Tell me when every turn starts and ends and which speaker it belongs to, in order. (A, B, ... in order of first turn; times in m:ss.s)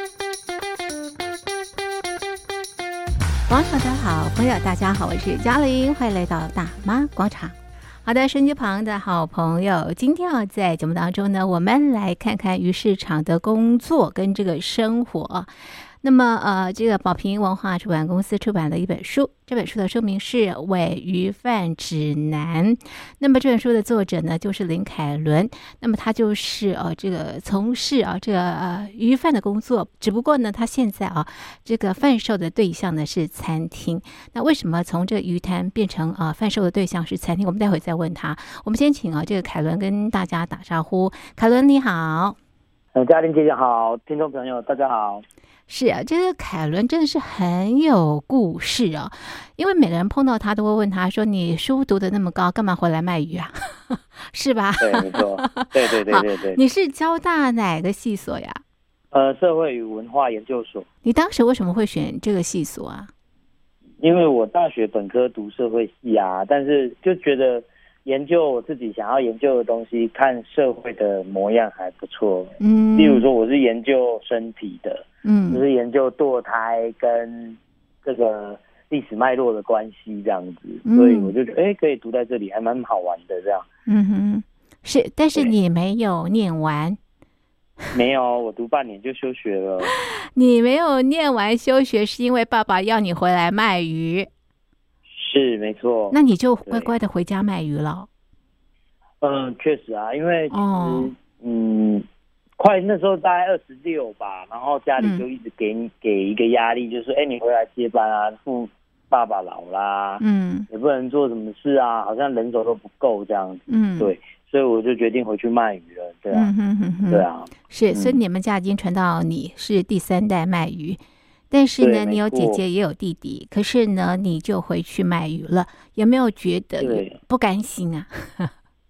0:03.5-0:15.5 A
0:16.0-0:42.4 A
0:43.0-0:45.2 B
0:45.7-0:58.6 A
0:54.8-0:56.6 B
0:59.1-1:00.9 B
1:01.0-1:03.1 A
1:04.0-1:23.7 B
1:12.6-1:13.2 A
1:15.2-1:15.6 A
1:20.9-1:21.3 A
1:23.9-1:27.0 A
1:27.9-1:29.9 B
1:29.9-1:34.3 A
1:35.1-1:36.9 B
1:36.1-1:38.1 A
1:39.2-1:42.1 B
1:40.5-1:41.1 A
1:42.6-1:56.5 B
1:45.0-1:45.2 A
1:50.2-1:50.7 A
1:53.7-1:54.1 A
1:56.3-2:01.0 A
1:57.1-1:58.2 B
2:01.5-2:08.5 A
2:01.8-2:02.6 B
2:06.8-2:07.2 B